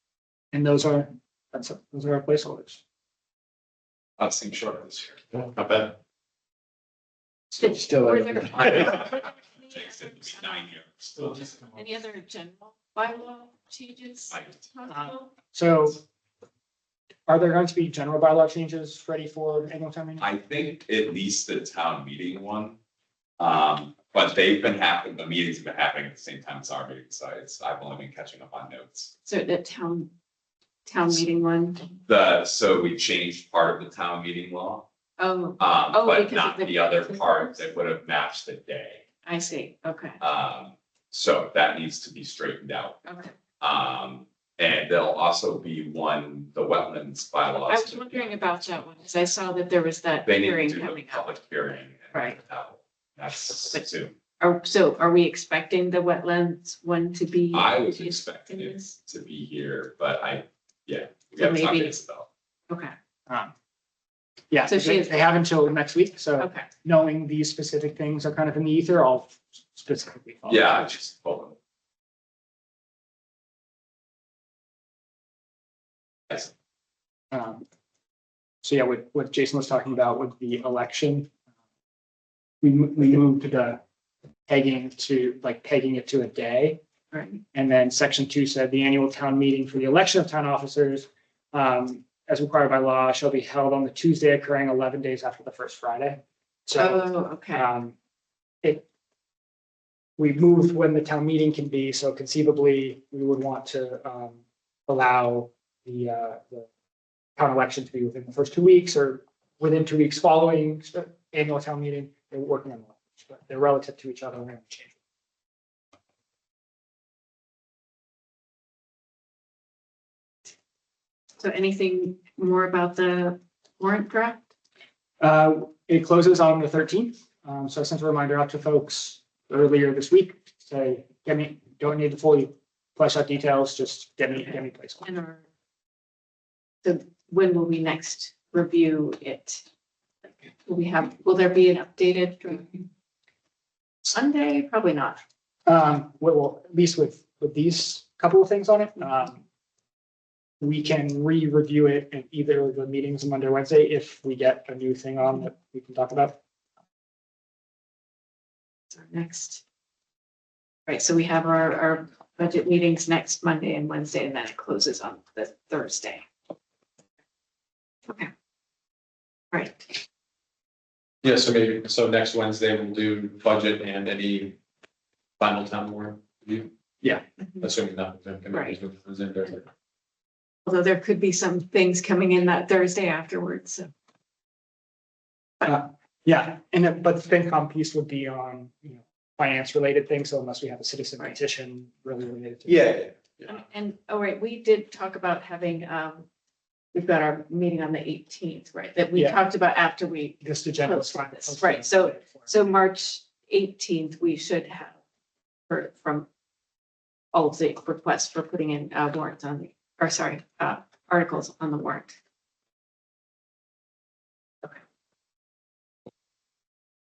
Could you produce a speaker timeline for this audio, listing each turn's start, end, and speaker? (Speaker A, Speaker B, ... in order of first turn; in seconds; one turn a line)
Speaker A: 0.5-2.8
Speaker B: 4.2-5.2
Speaker C: 5.3-6.0
Speaker D: 7.5-10.7
Speaker B: 8.5-11.6
Speaker D: 11.6-15.3
Speaker A: 14.9-16.0
Speaker A: 17.3-20.2
Speaker B: 20.2-22.8
Speaker B: 23.4-29.1
Speaker D: 29.2-30.1
Speaker D: 30.9-31.9
Speaker B: 32.0-34.9
Speaker D: 35.2-37.7
Speaker B: 35.6-39.0
Speaker D: 39.2-40.2
Speaker B: 40.2-43.0
Speaker D: 43.0-43.3
Speaker B: 43.6-48.6
Speaker D: 47.6-51.4
Speaker B: 50.2-54.1
Speaker D: 52.1-52.4
Speaker D: 53.7-58.9
Speaker B: 57.5-62.3
Speaker D: 61.4-62.0
Speaker D: 62.7-62.9
Speaker A: 63.3-63.5
Speaker A: 64.5-71.0
Speaker D: 64.7-65.1
Speaker D: 66.4-66.7
Speaker B: 70.5-71.5
Speaker A: 77.3-77.7
Speaker A: 78.6-81.3
Speaker A: 82.6-83.8
Speaker A: 84.5-86.8
Speaker D: 87.1-87.4
Speaker A: 87.5-97.9
Speaker D: 96.7-97.7
Speaker A: 100.2-106.7
Speaker A: 107.4-114.9
Speaker D: 121.4-124.5
Speaker A: 125.2-135.1
Speaker D: 134.5-135.4
Speaker D: 136.8-139.6
Speaker D: 140.6-142.8
Speaker D: 144.1-145.2
Speaker A: 145.7-149.4
Speaker A: 150.6-156.4
Speaker D: 158.9-159.6
Speaker D: 160.8-166.2
Speaker D: 169.5-170.0
Speaker C: 171.2-174.6
Speaker C: 175.4-176.7
Speaker C: 177.6-179.6
Speaker D: 178.5-178.8
Speaker D: 180.7-183.9
Speaker A: 185.6-192.9
Speaker C: 192.7-193.1
Speaker D: 193.4-196.2
Speaker D: 196.9-205.0
Speaker A: 200.4-202.5
Speaker D: 205.7-206.3
Speaker D: 207.3-212.1